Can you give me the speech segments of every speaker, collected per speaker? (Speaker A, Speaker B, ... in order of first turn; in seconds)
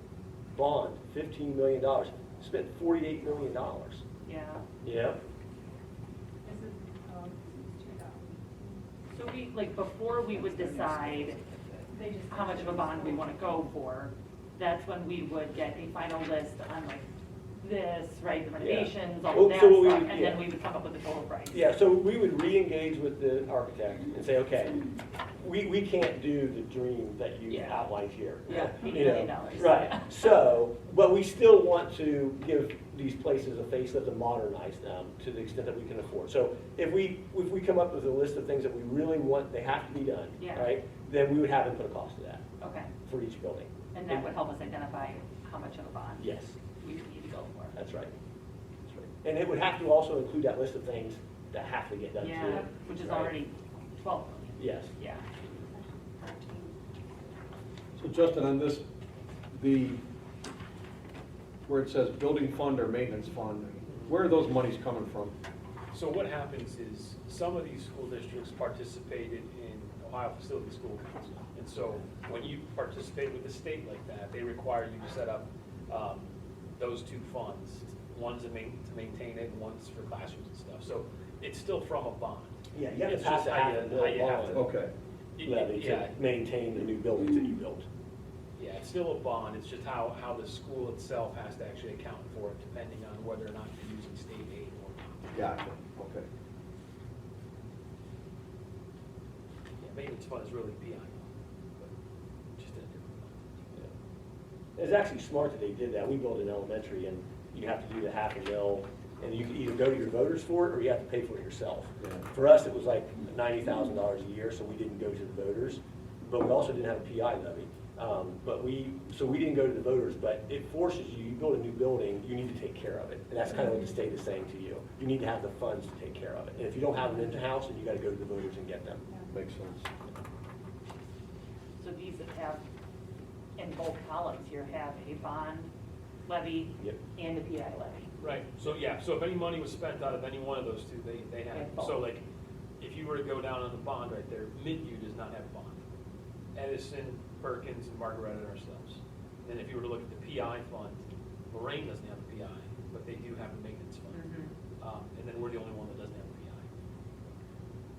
Speaker A: 0.6-4.0, 4.8-5.2, 18.6-20.4, 21.5-24.8, 25.4-42.4, 43.0-44.3, 46.2-46.6, 47.7-48.1, 48.9-53.4, 54.6-54.9, 82.7-84.7, 85.4-87.9, 104.8-129.1
Speaker B: 4.2-4.6, 9.1-11.5, 12.3-17.1, 17.6-21.6, 27.5-27.9, 28.5-30.3, 40.4-40.8, 42.6-42.9, 43.9-47.8, 52.2-55.2, 131.8-132.6, 133.6-135.7, 136.3-138.1, 141.5-142.1, 154.1-154.5
Speaker C: 6.4-8.8, 10.3-10.9, 11.9-13.7, 52.4-52.8, 55.5-56.8
Speaker D: 58.0-58.9, 59.5-60.0, 61.7-65.3, 84.5-84.9, 95.3-96.3, 129.3-129.9
Speaker E: 63.9-64.2, 65.9-84.6, 85.4-86.2, 88.6-95.4, 99.8-101.9, 102.6-103.8, 138.2-142.2, 142.8-145.8, 146.6-154.2, 154.8-156.7